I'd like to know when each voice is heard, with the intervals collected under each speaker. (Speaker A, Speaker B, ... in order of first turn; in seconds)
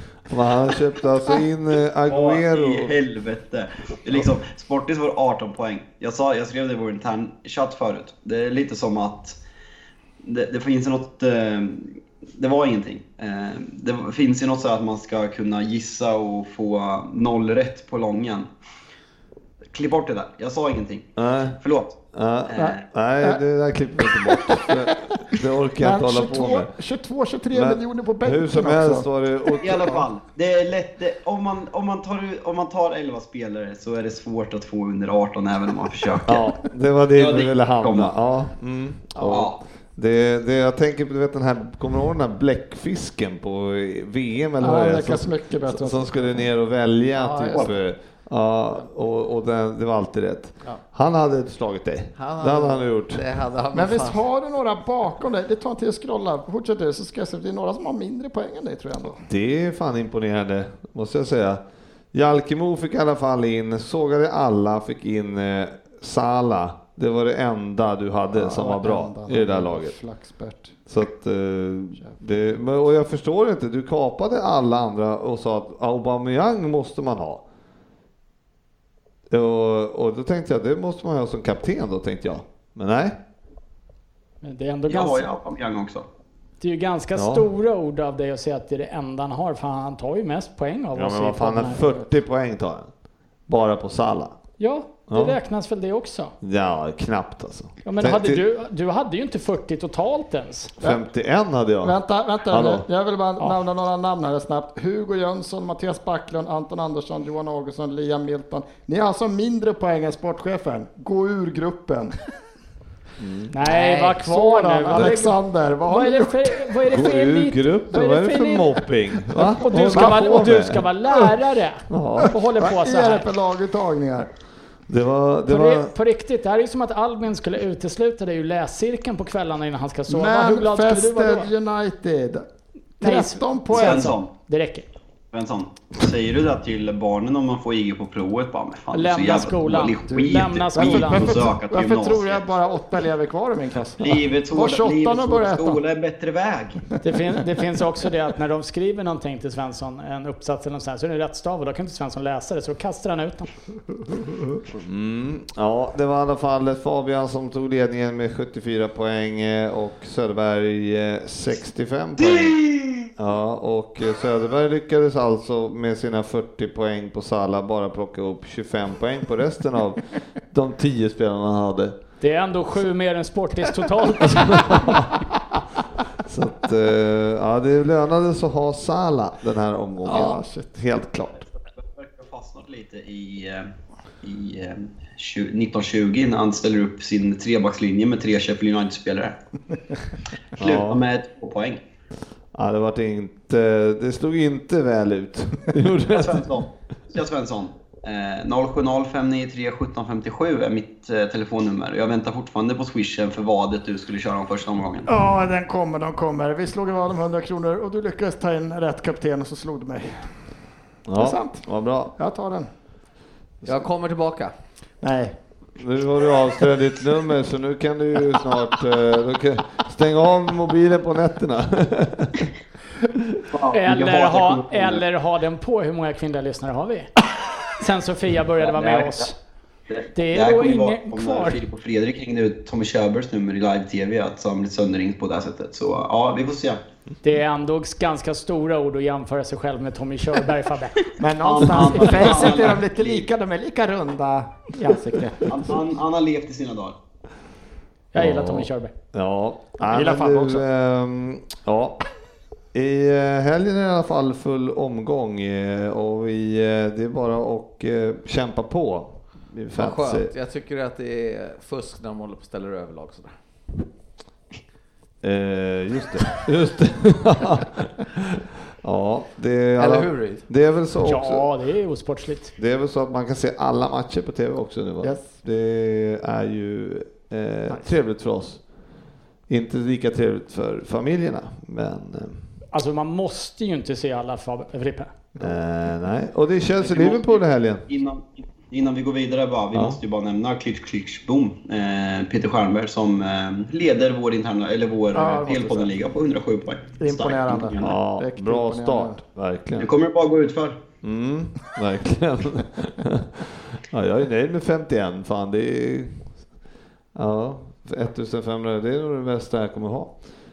Speaker A: 0.3-3.0, 21.1-21.6, 22.1-26.7, 27.5-30.1, 36.2-53.2, 59.3-61.6, 62.1-70.0, 70.9-77.4, 79.3-83.2, 87.1-87.5, 90.9-92.9, 93.5-94.3, 95.1-95.4, 96.4-98.4, 100.8-102.8, 113.2-113.5, 116.9-121.3, 121.9-122.3, 124.9-125.9, 154.7-162.6, 163.1-171.9, 174.2-175.1, 176.2-181.5, 190.6-191.0, 192.5-196.5, 211.1-212.1, 215.8-222.5, 248.1-252.0, 252.7-260.3, 265.2-271.5, 272.6-278.6, 279.5-282.4, 285.4-287.8, 289.7-290.0, 297.8-299.9, 301.0-306.3, 307.1-310.1
Speaker B: 2.1-9.4, 10.2-18.5, 19.7-21.1, 21.6-22.0, 22.5-22.8, 29.6-36.5, 37.1-38.1, 39.3-39.6, 84.9-86.0, 133.7-134.3, 135.3-142.5, 144.0-146.8, 181.8-183.7, 184.2-189.4, 190.6-191.8, 196.1-205.1, 223.5-225.0, 228.6-229.3, 229.9-236.8, 241.4-243.3, 245.4-246.9, 286.8-298.0, 299.8-300.8
Speaker C: 22.6-23.4, 24.3-24.7, 25.8-29.1, 44.6-46.5, 53.7-59.2, 68.3-70.8, 101.8-112.1, 114.2-116.6, 119.4-120.4, 122.6-124.3, 130.1-132.4, 133.0-134.1, 140.1-145.8, 180.0-180.7, 205.1-210.2, 211.2-211.6, 212.2-212.7, 215.0-215.3, 241.2-245.8, 249.8-250.6, 275.0-275.3, 295.1-295.9, 297.0-299.2
Speaker D: 47.2-47.6, 52.2-54.2, 113.6-114.2, 114.9-115.3, 213.6-214.5, 259.8-263.3, 269.8-270.4
Speaker E: 84.4-85.2, 86.6-91.8, 94.6-96.3, 97.8-100.7, 113.5-115.3, 115.9-118.8, 119.6-123.2, 125.5-131.5, 133.0-134.8, 138.9-141.4, 147.0-153.5, 172.2-175.0, 223.7-227.1, 227.8-229.3, 230.1-231.6, 237.2-241.1, 248.1-248.9, 271.0-272.5, 282.7-285.1